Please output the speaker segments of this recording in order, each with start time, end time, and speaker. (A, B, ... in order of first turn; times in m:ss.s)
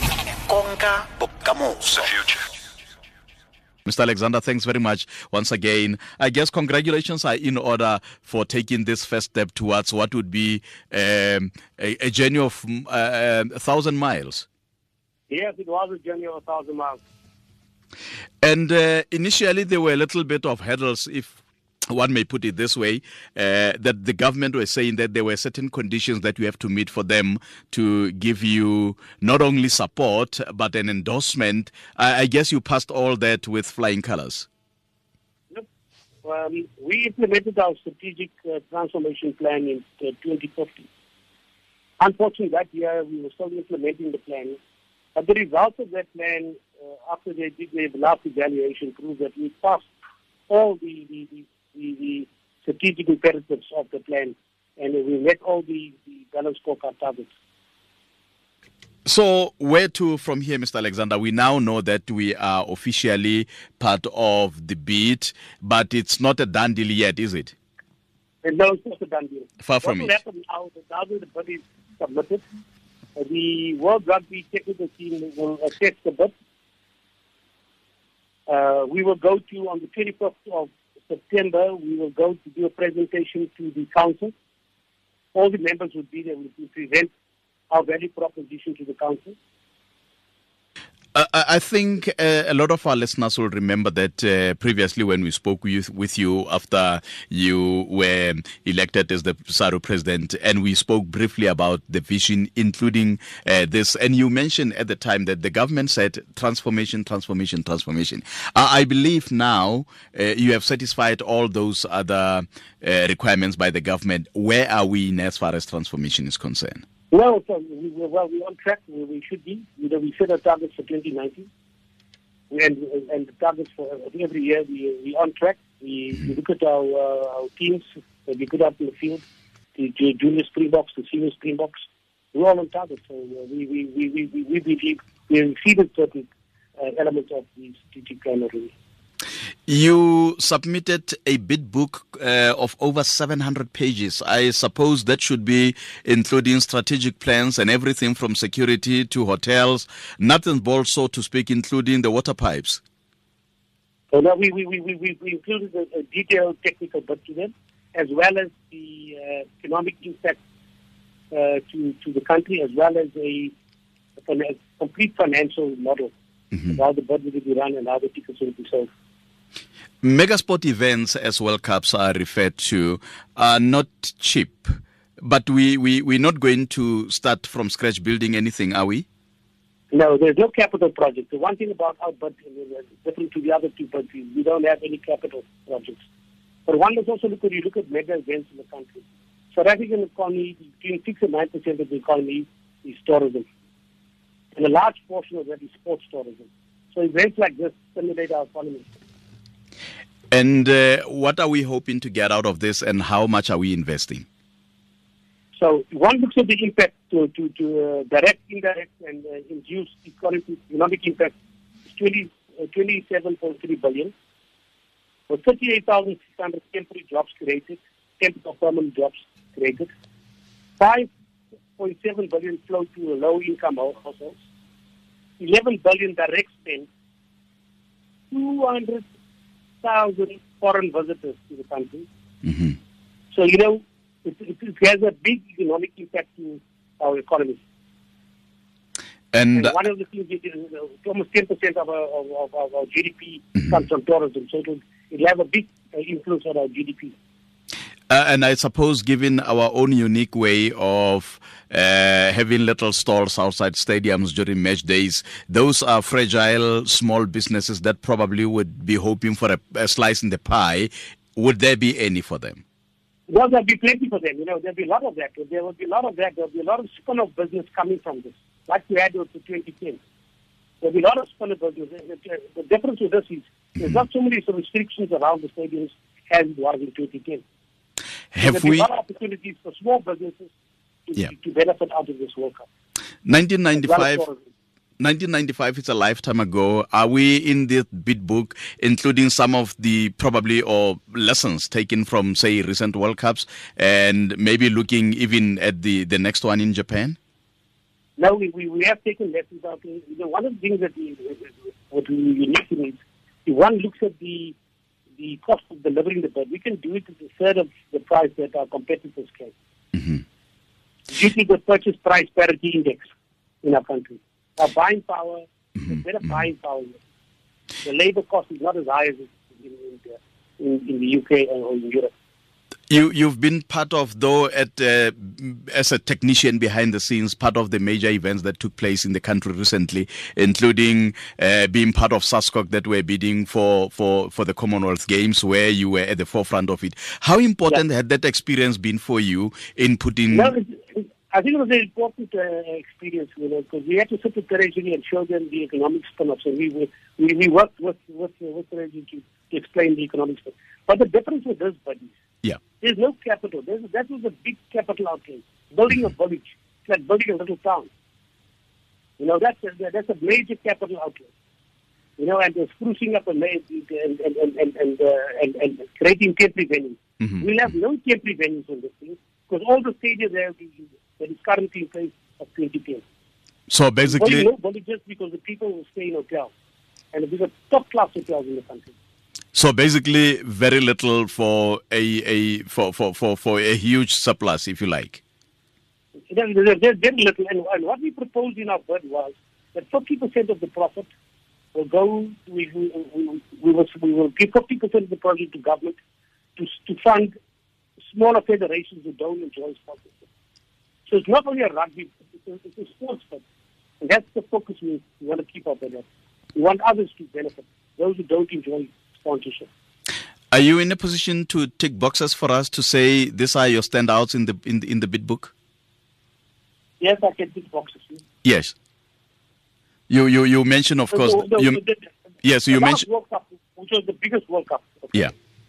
0:00.4-0:02.4 A
0:03.9-0:14.5 B
0:15.3-0:17.0 C
0:18.4-0:21.4 B
0:21.9-0:34.5 B
0:36.2-0:40.9 C
0:42.0-0:44.6 C
0:45.2-0:49.9 C
0:50.5-0:57.3 C
0:59.1-1:07.5 B
1:08.4-1:12.4 C
1:09.6-1:10.2 B
1:13.2-1:16.3 C
1:18.5-1:24.3 C
1:25.3-1:27.1 C
1:27.7-1:29.4 C
1:31.1-1:56.8 B
1:57.1-2:01.5 C
2:02.5-2:09.2 C
2:09.8-2:18.7 C
2:19.7-2:32.8 B
2:34.1-2:40.4 C
2:41.3-2:43.5 C
2:44.2-2:46.1 C
2:46.7-2:48.9 C
2:50.0-2:59.1 B
2:59.9-3:06.0 C
3:06.7-3:13.5 C
3:14.5-3:18.9 C
3:20.3-3:24.3 B
3:25.5-3:31.4 C
3:31.9-3:34.1 C
3:35.3-3:39.9 C
3:40.8-3:41.1 C
3:41.8-3:44.4 C
3:45.4-3:46.9 C
3:48.3-3:49.1 C
3:49.8-3:52.1 C
3:52.4-3:52.8 B
3:53.3-3:57.6 C
3:59.3-3:59.8 B
3:59.6-4:07.2 C
4:08.1-4:22.6 B
4:23.3-4:30.0 C
4:30.8-4:37.4 C
4:38.3-4:38.9 B
4:38.4-4:40.5 C
4:41.1-4:42.7 C
4:43.2-4:44.2 B
4:43.8-4:44.4 C
4:45.0-4:57.2 B
4:58.2-5:04.6 C
5:05.2-5:09.5 C
5:09.9-5:10.2 B
5:11.1-5:13.1 C
5:13.6-5:17.0 C
5:17.8-5:22.1 C
5:22.9-5:40.5 B
5:40.3-5:52.1 C
5:52.8-5:57.9 C
5:59.2-6:01.3 C
6:02.2-6:13.0 C
6:07.2-6:07.5 B
6:13.7-6:14.5 B
6:14.0-6:16.5 C
6:17.1-6:18.9 C
6:19.5-6:25.2 B
6:26.3-6:31.1 C
6:31.7-6:36.0 C
6:36.6-6:37.3 C
6:38.1-6:40.2 C
6:41.1-6:43.4 C
6:44.0-6:49.7 C
6:50.5-6:55.5 B
6:57.0-6:58.2 C
6:58.4-6:58.7 B
7:00.1-7:01.8 B
7:01.1-7:02.1 C
7:02.4-7:03.0 B
7:02.7-7:05.3 C